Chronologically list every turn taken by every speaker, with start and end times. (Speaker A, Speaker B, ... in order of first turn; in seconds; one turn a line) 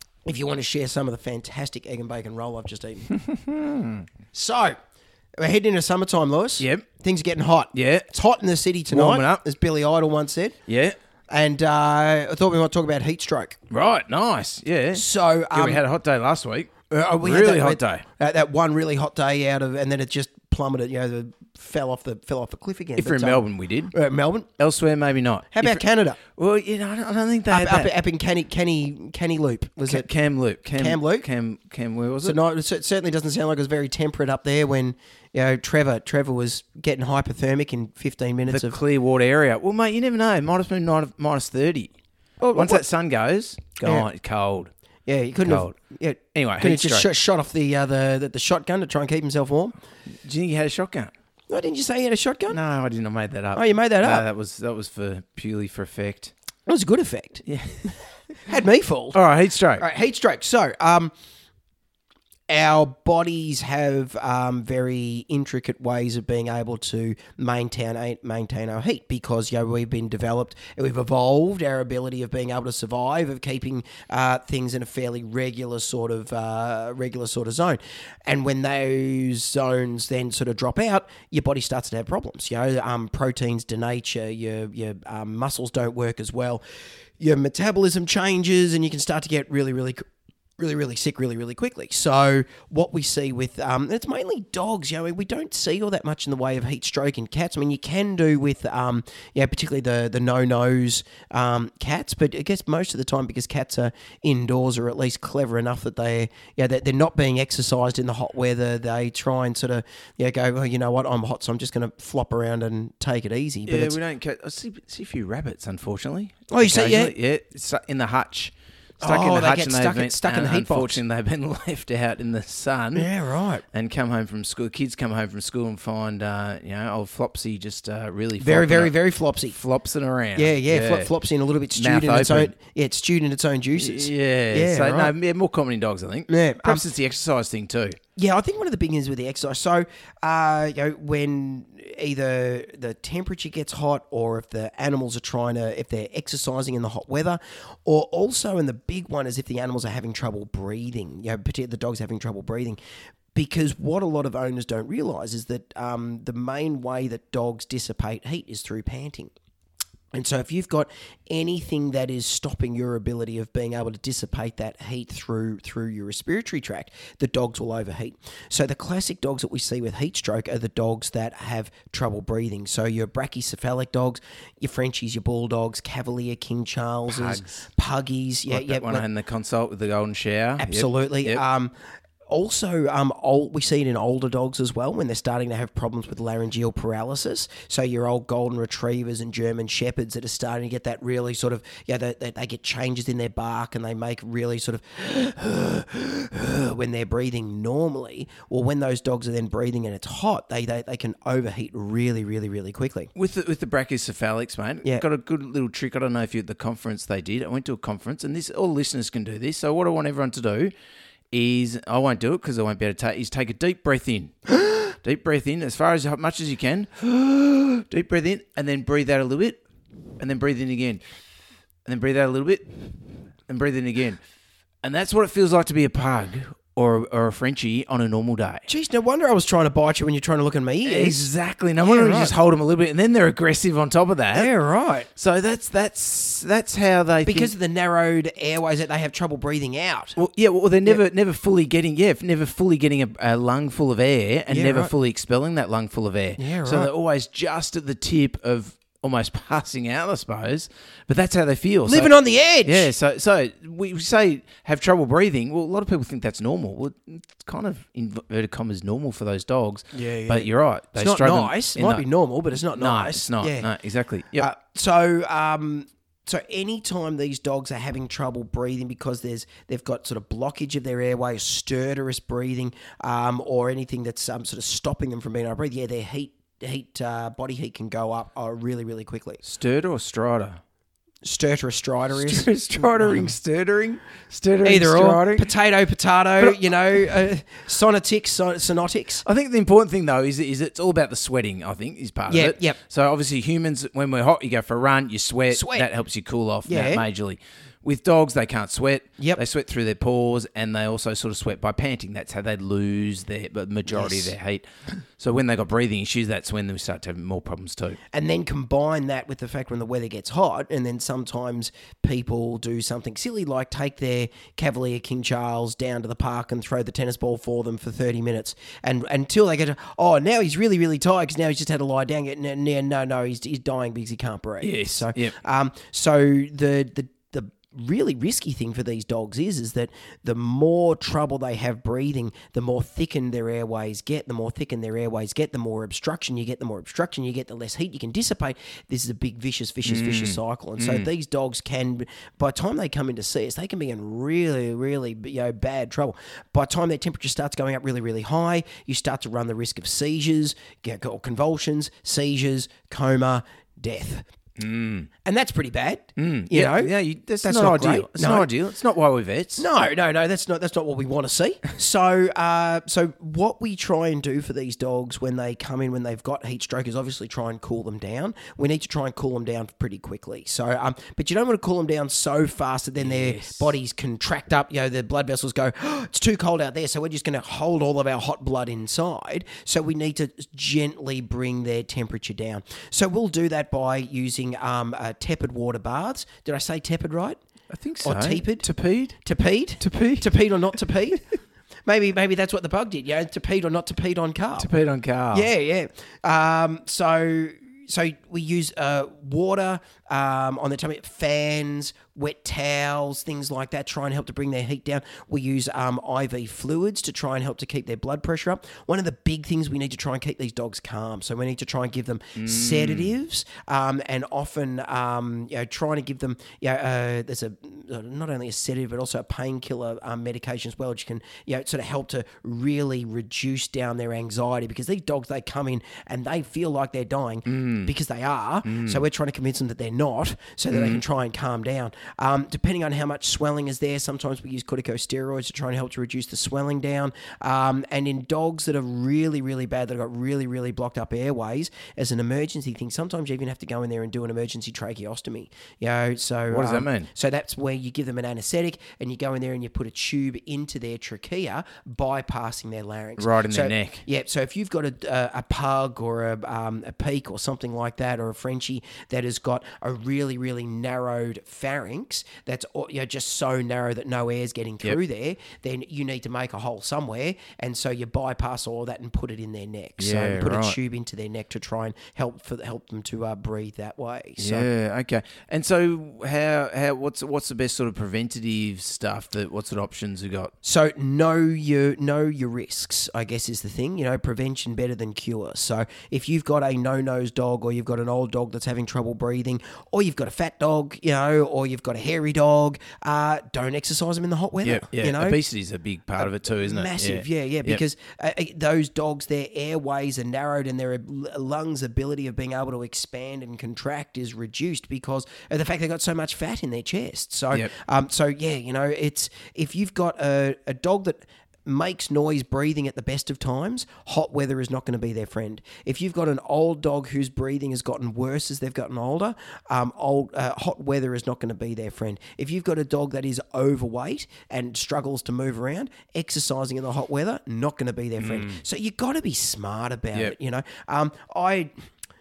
Speaker A: 0.2-3.1
Speaker B: 3.1-4.0
Speaker A: 4.3-4.8
Speaker A: 5.4-10.6
Speaker B: 6.6-6.8
Speaker B: 7.7-8.1
Speaker B: 8.9-9.4
Speaker B: 10.7-10.9
Speaker A: 11.3-13.6
Speaker B: 13.7-18.0
Speaker A: 14.9-15.8
Speaker A: 16.9-24.5
Speaker B: 22.9-23.9
Speaker B: 24.6-27.9
Speaker A: 25.5-26.2
Speaker A: 27.5-30.1
Speaker B: 29.9-32.4
Speaker A: 30.8-31.2
Speaker A: 32.2-38.8
Speaker B: 38.5-41.9
Speaker A: 42.4-42.8
Speaker B: 42.5-44.7
Speaker A: 45.0-49.7
Speaker B: 45.4-45.7
Speaker B: 46.3-47.1
Speaker B: 50.2-51.1
Speaker A: 51.5-52.6
Speaker B: 52.5-56.3
Speaker A: 53.5-54.2
Speaker A: 56.7-57.4
Speaker B: 57.5-57.9
Speaker A: 58.4-59.2
Speaker B: 59.1-59.8
Speaker A: 59.8-61.1
Speaker A: 62.5-86.6
Speaker A: 87.2-90.0
Speaker A: 90.6-114.0
Speaker B: 113.7-123.1
Speaker A: 116.5-117.1
Speaker A: 119.0-121.0
Speaker A: 122.9-123.6
Speaker B: 123.7-128.9
Speaker A: 128.4-129.6
Speaker B: 129.5-131.1
Speaker A: 130.3-135.1
Speaker B: 131.7-132.5
Speaker B: 133.8-138.0
Speaker A: 136.3-136.8
Speaker A: 138.2-152.8
Speaker A: 153.3-159.3
Speaker A: 160.1-179.0
Speaker B: 177.1-177.5
Speaker B: 178.5-181.4
Speaker A: 180.6-181.7
Speaker A: 182.3-203.1
Speaker B: 203.1-210.7
Speaker B: 211.3-214.3
Speaker B: 215.0-219.6
Speaker B: 220.2-221.0
Speaker B: 221.8-222.7
Speaker B: 223.5-224.2
Speaker B: 224.8-228.7
Speaker A: 228.7-231.3
Speaker B: 230.8-234.5
Speaker A: 231.8-232.3
Speaker A: 234.3-235.1
Speaker B: 235.2-237.5
Speaker A: 237.2-240.2
Speaker B: 240.2-252.1
Speaker A: 244.5-244.9
Speaker A: 246.4-246.9
Speaker A: 251.9-252.9
Speaker B: 252.6-262.1
Speaker A: 259.9-263.7
Speaker B: 262.7-264.5
Speaker A: 264.4-279.4
Speaker B: 279.4-280.6
Speaker A: 281.2-283.3
Speaker B: 282.1-285.5
Speaker A: 284.6-289.2
Speaker B: 289.2-308.0
Speaker A: 292.3-292.8
Speaker A: 295.5-295.9
Speaker A: 296.6-297.0
Speaker A: 303.9-304.3
Speaker A: 308.1-354.2
Speaker B: 324.6-325.4
Speaker B: 339.8-341.1
Speaker B: 354.6-355.1
Speaker A: 355.2-358.5
Speaker B: 356.2-359.6
Speaker A: 359.6-387.4
Speaker B: 373.0-373.7
Speaker B: 387.7-389.2
Speaker A: 388.0-388.7
Speaker A: 389.2-391.3
Speaker B: 389.8-390.3
Speaker A: 391.9-394.7
Speaker B: 394.6-395.5
Speaker A: 395.3-474.7
Speaker B: 412.4-413.1
Speaker B: 427.4-427.9
Speaker B: 428.6-429.0
Speaker B: 430.7-431.0
Speaker B: 446.5-447.1
Speaker B: 453.2-454.0
Speaker B: 470.0-470.8
Speaker B: 474.4-480.5
Speaker A: 480.6-495.4
Speaker B: 494.6-497.8
Speaker A: 496.2-531.7
Speaker B: 528.2-528.6